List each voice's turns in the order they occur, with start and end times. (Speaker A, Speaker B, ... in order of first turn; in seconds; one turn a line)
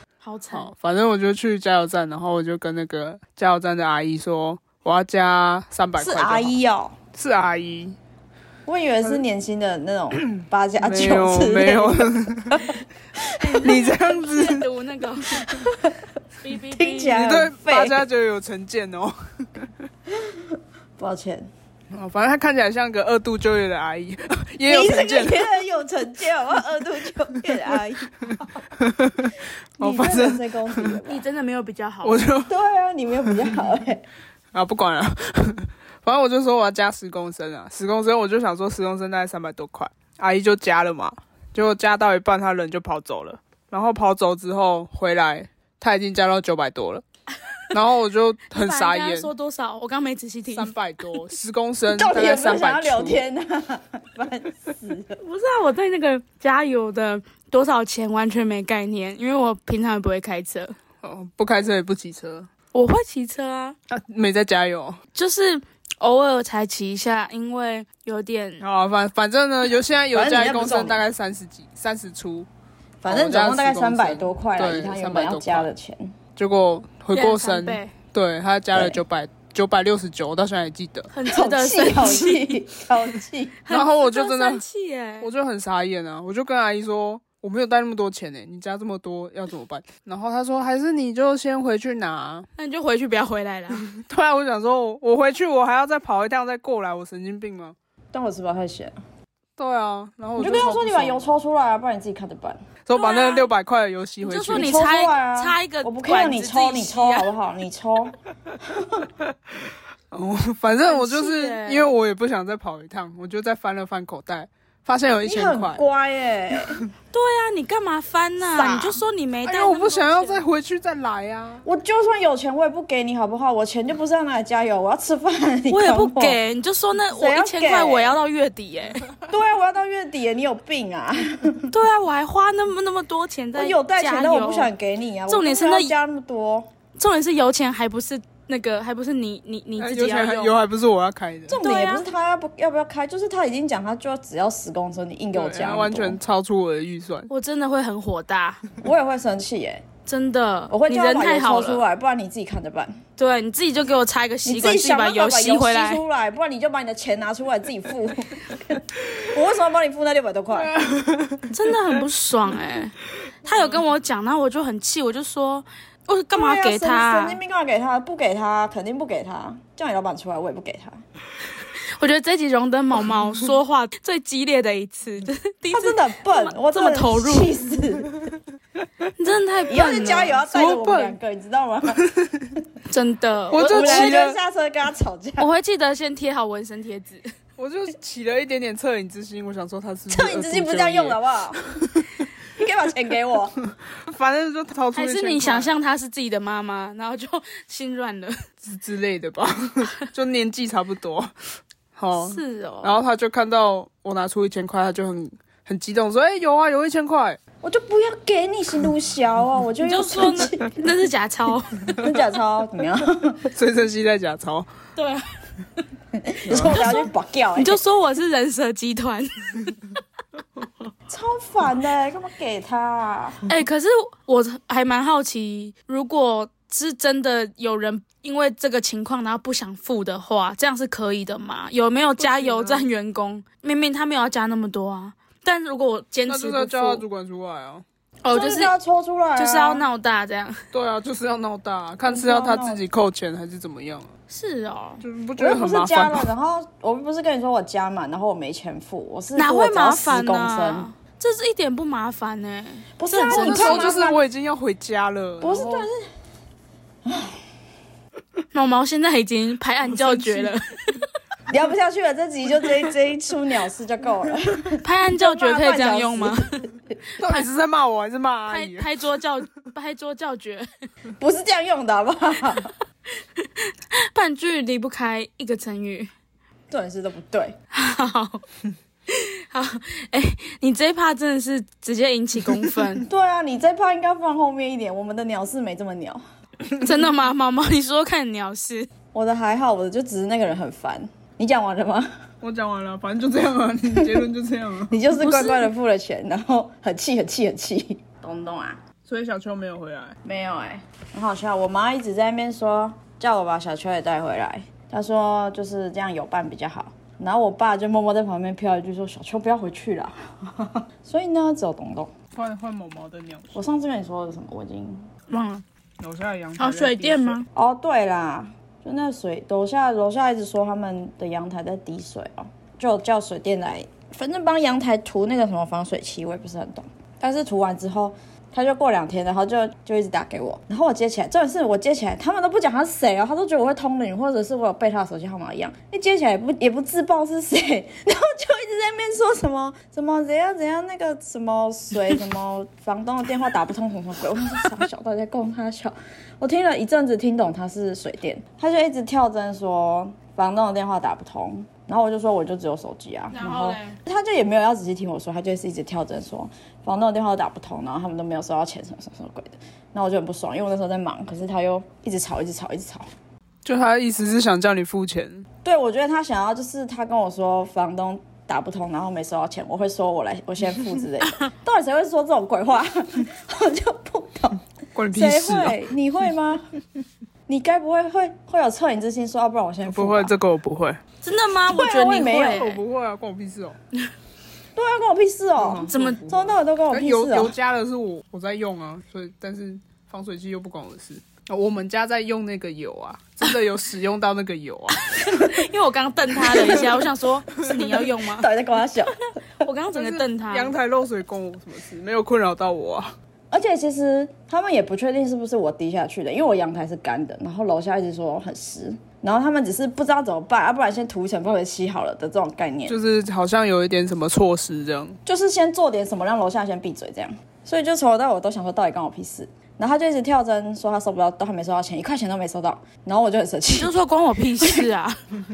Speaker A: 0.2-0.7
Speaker B: 0.5-6.5
Speaker C: 6.0-7.0
Speaker B: 7.1-8.0
Speaker C: 8.7-13.6
Speaker B: 10.2-12.7
Speaker A: 13.4-15.5
Speaker B: 13.6-14.7
Speaker C: 15.5-16.0
Speaker A: 16.4-17.2
Speaker C: 16.8-18.1
Speaker B: 17.1-19.7
Speaker C: 20.1-21.5
Speaker B: 21.9-25.5
Speaker C: 24.7-28.5
Speaker B: 28.8-31.0
Speaker C: 29.8-31.2
Speaker A: 31.1-32.2
Speaker B: 32.0-32.5
Speaker C: 32.5-34.1
Speaker B: 33.2-33.5
Speaker B: 34.5-47.0
Speaker B: 47.7-49.3
Speaker A: 48.5-50.7
Speaker B: 50.5-53.2
Speaker C: 51.9-55.2
Speaker A: 55.2-60.8
Speaker B: 61.0-62.5
Speaker A: 62.7-63.8
Speaker B: 63.9-65.0
Speaker A: 65.1-68.6
Speaker B: 68.6-72.5
Speaker C: 70.1-71.0
Speaker C: 73.0-76.2
Speaker B: 73.0-75.7
Speaker B: 76.4-81.1
Speaker A: 77.1-77.9
Speaker C: 78.7-79.0
Speaker A: 81.1-82.6
Speaker C: 81.3-83.6
Speaker A: 83.7-85.3
Speaker B: 83.7-84.6
Speaker B: 85.2-92.5
Speaker A: 92.6-93.8
Speaker B: 93.8-97.8
Speaker C: 98.1-99.0
Speaker B: 99.6-101.2
Speaker C: 100.4-102.7
Speaker B: 102.8-104.8
Speaker A: 102.9-103.5
Speaker A: 104.2-107.3
Speaker C: 104.5-109.1
Speaker B: 110.1-115.8
Speaker A: 110.8-111.9
Speaker C: 115.2-116.8
Speaker A: 117.1-120.4
Speaker C: 118.4-119.0
Speaker B: 119.5-121.7
Speaker C: 121.7-126.4
Speaker A: 125.7-129.1
Speaker C: 127.1-128.2
Speaker C: 129.3-131.7
Speaker A: 131.7-134.7
Speaker C: 133.5-136.7
Speaker A: 135.3-135.9
Speaker A: 137.0-140.6
Speaker B: 139.8-141.6
Speaker C: 141.5-146.2
Speaker A: 141.6-142.0
Speaker B: 145.3-147.3
Speaker A: 147.3-148.6
Speaker C: 148.8-149.8
Speaker A: 150.1-151.8
Speaker C: 150.7-153.0
Speaker A: 153.2-156.0
Speaker C: 154.4-160.7
Speaker B: 160.5-161.7
Speaker A: 161.5-167.4
Speaker C: 166.3-171.0
Speaker A: 171.7-177.5
Speaker C: 175.7-178.1
Speaker A: 179.2-180.5
Speaker C: 179.7-182.0
Speaker B: 180.4-181.2
Speaker B: 182.1-182.4
Speaker A: 182.9-184.2
Speaker B: 183.5-184.4
Speaker C: 183.6-185.5
Speaker A: 185.4-187.2
Speaker B: 187.6-192.2
Speaker C: 190.1-191.6
Speaker C: 192.5-193.5
Speaker B: 194.0-195.7
Speaker A: 194.9-198.4
Speaker B: 198.6-201.3
Speaker B: 201.9-207.4
Speaker A: 202.2-202.9
Speaker C: 207.6-210.8
Speaker A: 209.8-211.9
Speaker C: 212.0-213.5
Speaker B: 213.5-214.7
Speaker A: 215.0-215.2
Speaker C: 216.2-217.8
Speaker B: 216.5-216.8
Speaker A: 216.5-219.8
Speaker C: 221.1-223.4
Speaker A: 223.5-237.0
Speaker B: 232.2-232.9
Speaker B: 236.3-237.8
Speaker A: 238.2-238.7
Speaker C: 238.3-239.8
Speaker A: 239.3-240.6
Speaker B: 240.7-244.1
Speaker C: 242.1-242.8
Speaker A: 244.3-245.0
Speaker B: 245.0-246.3
Speaker C: 245.4-250.9
Speaker A: 249.3-253.9
Speaker C: 253.0-254.2
Speaker B: 253.2-255.9
Speaker C: 255.4-256.1
Speaker C: 257.0-257.4
Speaker A: 258.5-261.1
Speaker C: 260.1-260.5
Speaker C: 261.5-266.9
Speaker A: 264.8-267.5
Speaker B: 267.2-268.9
Speaker A: 268.5-270.7
Speaker C: 271.2-272.7
Speaker A: 273.4-276.1
Speaker C: 276.7-277.6
Speaker A: 277.7-278.4
Speaker A: 279.1-283.1
Speaker C: 283.1-286.2
Speaker A: 286.7-288.9
Speaker C: 289.1-292.1
Speaker B: 292.4-295.0
Speaker C: 294.0-294.3
Speaker C: 294.9-298.8
Speaker A: 295.1-295.7
Speaker B: 299.0-300.1
Speaker C: 300.2-312.1
Speaker B: 312.3-313.5
Speaker C: 313.5-315.1
Speaker A: 315.3-315.6
Speaker B: 316.0-317.4
Speaker A: 316.6-317.5
Speaker C: 317.5-363.1
Speaker A: 353.3-354.0
Speaker B: 363.6-365.4
Speaker C: 365.6-376.6
Speaker B: 374.9-375.9
Speaker C: 377.5-380.3
Speaker B: 379.9-381.0
Speaker A: 381.2-382.8
Speaker C: 381.7-382.7
Speaker B: 382.4-383.8
Speaker C: 384.8-387.5
Speaker B: 385.6-395.1
Speaker A: 385.9-386.2
Speaker A: 395.0-398.5
Speaker C: 396.5-396.9
Speaker C: 398.2-399.1
Speaker A: 399.6-400.8
Speaker B: 399.9-403.1
Speaker C: 403.5-413.0
Speaker B: 412.9-415.2
Speaker C: 415.2-423.9
Speaker A: 423.7-425.2